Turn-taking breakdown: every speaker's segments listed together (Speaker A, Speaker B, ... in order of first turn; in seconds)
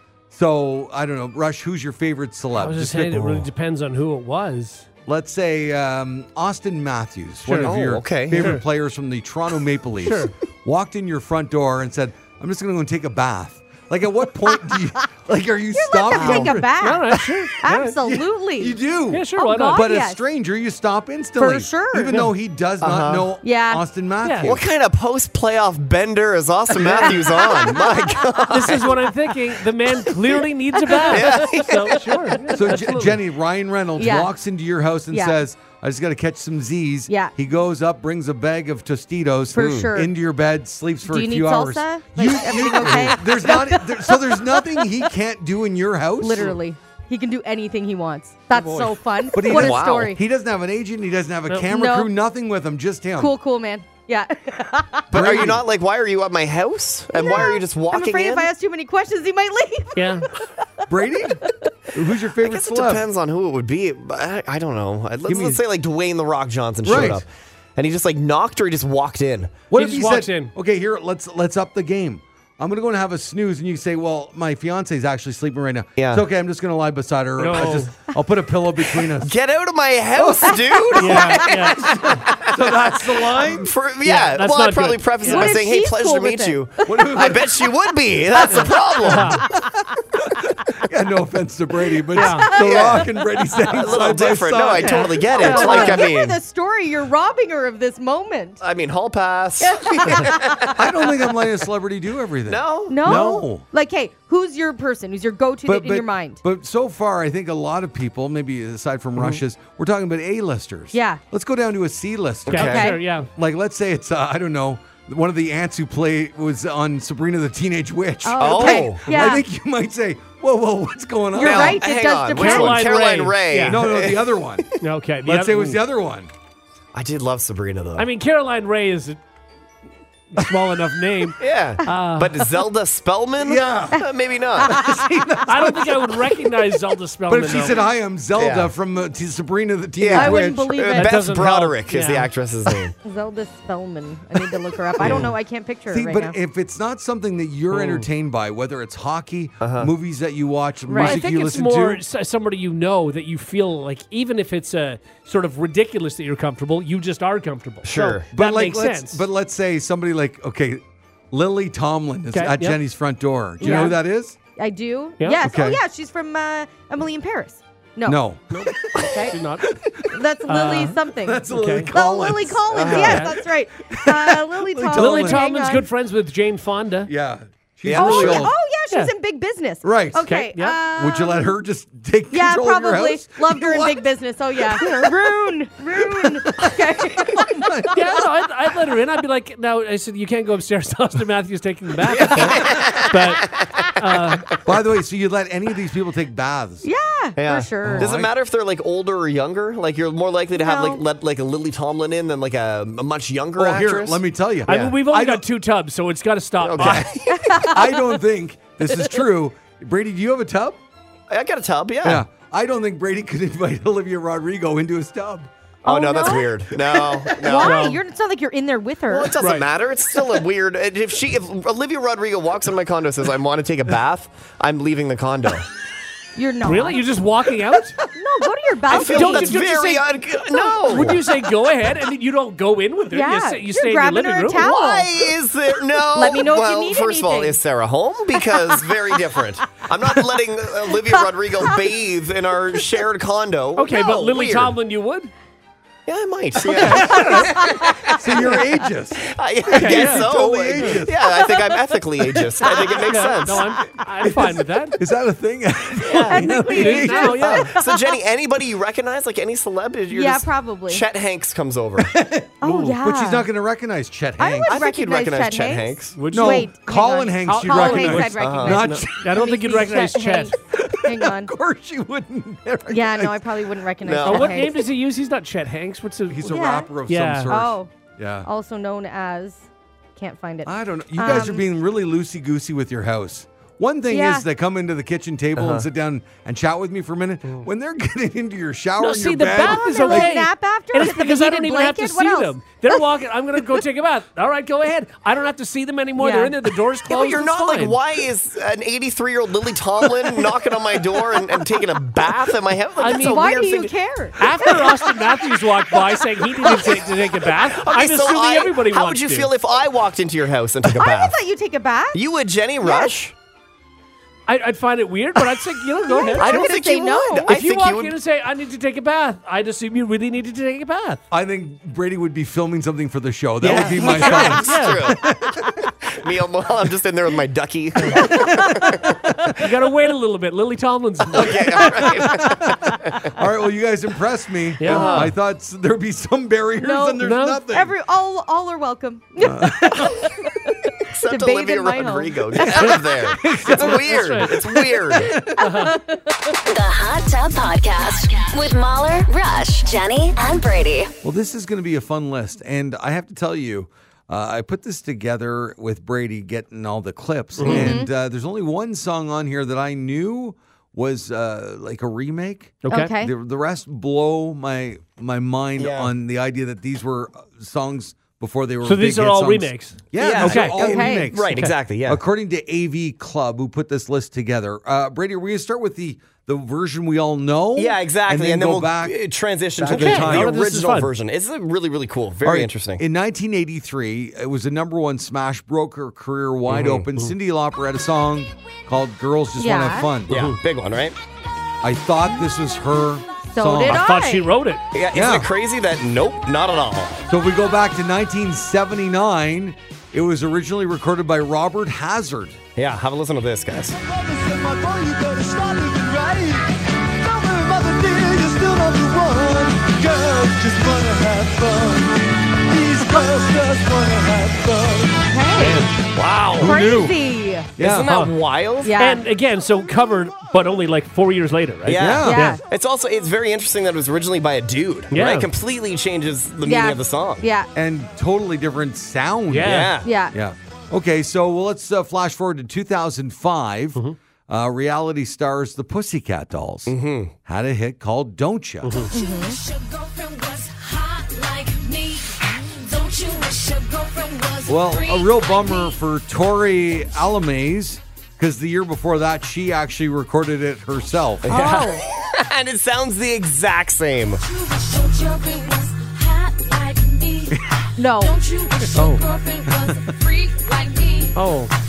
Speaker A: 0.3-3.5, 5.1-17.4, 18.0-24.6, 32.5-46.6, 49.3-53.3, 55.1-55.6, 60.9-63.1, 65.2-65.6, 66.8-67.2, 69.7-79.3, 80.1-83.7, 86.8-87.5, 90.2-95.6, 100.7-103.6, 105.7-121.8, 123.6-124.7, 125.2-126.3, 133.4-134.1, 134.6-136.4, 137.3-140.8, 145.0-145.3, 145.9-152.0, 158.3-164.4, 165.4-165.8, 168.0-170.2, 171.2-175.4, 177.1-178.5, 179.8-180.3, 180.9-184.0, 184.6-185.1, 185.9-188.2, 192.2-192.7, 194.6-196.9, 197.8-198.3, 203.6-205.4, 206.8-210.8, 212.0-215.5, 248.1-251.2, 254.2-257.7, 262.0-264.8, 266.3-269.4, 270.7-273.6, 276.3-278.5, 280.6-290.3, 321.3-325.8, 331.4-337.9, 339.4-340.3, 342.6-345.7, 351.2-379.2, 379.8-380.6, 382.4-390.4, 391.8-394.1, 395.1-395.5, 397.3-402.6, 404.1-406.6, 407.2-415.9, 416.5-417.2, 417.8-418.1, 421.9-422.5, 427.7-439.1, 444.6-451.6, 459.7-460.1
Speaker B: 2.5-4.9, 7.5-7.8, 8.3-8.6, 10.0-10.3, 16.2-17.9, 19.1-19.8, 24.2-24.5, 26.9-27.3, 28.5-33.2, 48.5-48.9, 60.0-60.3, 69.7-70.5, 77.4-77.9, 81.0-81.8, 84.0-85.5, 88.5-89.4, 92.1-92.5, 94.8-96.0, 112.5-113.3, 122.3-123.8, 124.8-125.8, 128.0-129.2, 130.3-132.4, 135.5-137.8, 140.9-142.3, 147.7-148.1, 150.9-159.2, 162.3-162.8, 163.6-163.9, 169.3-169.7, 170.5-171.9, 172.9-173.3, 174.9-177.1, 180.2-180.8, 187.9-194.5, 204.7-207.1, 217.6-218.0, 219.4-219.7, 226.6-228.0, 228.9-234.6, 243.8-245.3, 246.7-247.5, 249.7-251.0, 253.1-255.0, 256.1-257.7, 262.6-262.9, 266.1-266.7, 267.4-270.5, 274.2-276.5, 277.1-277.5, 289.0-298.0, 303.0-303.5, 304.4-309.5, 314.5-316.7, 317.5-321.2, 323.6-325.1, 328.0-328.3, 329.6-332.1, 334.8-335.3, 337.2-337.6, 343.7-344.6, 345.6-346.0, 357.6-357.9, 362.8-363.1, 368.8-370.8, 379.8-381.1, 390.3-390.6, 393.9-394.8, 415.6-416.7, 418.1-418.3, 419.0-422.6, 425.1-425.5, 429.5-430.0, 438.8-439.1, 458.9-459.2, 461.3-461.7
Speaker C: 7.6-8.6, 16.2-16.5, 22.8-23.3, 24.4-29.1, 30.9-32.3, 39.6-39.9, 49.4-50.1, 55.1-58.5, 62.4-69.6, 76.0-76.2, 79.2-89.4, 92.5-93.1, 93.7-96.4, 98.6-101.3, 102.5-103.3, 112.5-112.8, 118.4-119.0, 121.4-124.8, 126.9-128.1, 131.4-134.8, 138.3-138.7, 140.0-142.9, 145.0-145.3, 149.6-149.9, 157.8-158.2, 172.7-173.2, 177.8-178.5, 192.1-194.4, 197.4-205.0, 206.6-207.8, 211.3-212.2, 215.8-217.8, 219.1-225.7, 228.9-231.2, 234.6-244.8, 246.1-248.6, 249.2-253.7, 257.5-262.1, 264.6-266.2, 268.4-268.8, 274.0-274.7, 285.6-285.9, 297.1-303.9, 306.6-311.4, 312.1-313.3, 316.4-318.1, 323.6-329.2, 331.3-333.3, 334.9-335.3, 341.0-345.4, 365.8-366.1, 370.2-372.2, 377.8-383.0, 386.7-387.1, 390.3-391.1, 394.9-397.3, 402.8-404.0, 417.8-419.0, 421.9-427.5, 429.6-430.1, 436.9-437.3, 451.4-454.4
Speaker D: 15.7-18.8, 19.4-20.2, 21.4-22.1, 23.4-23.8, 27.0-27.8, 30.9-31.3, 34.0-34.3, 35.1-35.4, 37.1-37.3, 39.5-40.1, 41.0-44.9, 46.2-50.2, 51.7-52.1, 53.2-55.1, 57.1-60.4, 85.2-87.3, 88.3-89.7, 92.1-92.9, 95.3-98.6, 99.6-100.8, 102.9-106.4, 110.9-111.2, 112.6-113.0, 118.2-119.5, 121.3-122.8, 134.6-135.1, 140.1-141.1, 143.0-146.3, 150.8-151.2, 163.6-163.9, 164.6-168.2, 169.0-169.3, 170.1-175.8, 177.9-181.5, 182.3-187.9, 196.8-198.1, 200.5-201.0, 207.3-208.2, 215.8-216.5, 217.4-219.3, 226.3-227.0, 228.1-229.6, 233.1-235.3, 236.1-237.6, 247.3-248.1, 256.2-258.0, 260.1-261.0, 262.6-263.5, 264.4-271.5, 272.9-274.8, 276.4-276.9, 277.5-277.9, 278.4-281.6, 284.1-284.4, 289.6-293.0, 296.2-296.5, 303.0-304.9, 310.9-312.2, 312.8-313.1, 316.1-317.6, 328.3-328.9, 334.9-335.3, 336.8-342.9, 345.6-346.2, 357.6-358.1, 362.9-363.3, 370.8-371.3, 389.6-390.1, 393.5-394.5, 415.3-415.8, 416.6-417.7, 418.8-419.2, 422.2-422.6, 426.6-427.7, 430.0-430.3, 439.1-439.6, 451.5-452.0, 458.0-458.4
Speaker E: 346.7-351.1
Speaker F: 439.1-445.9, 454.4-461.4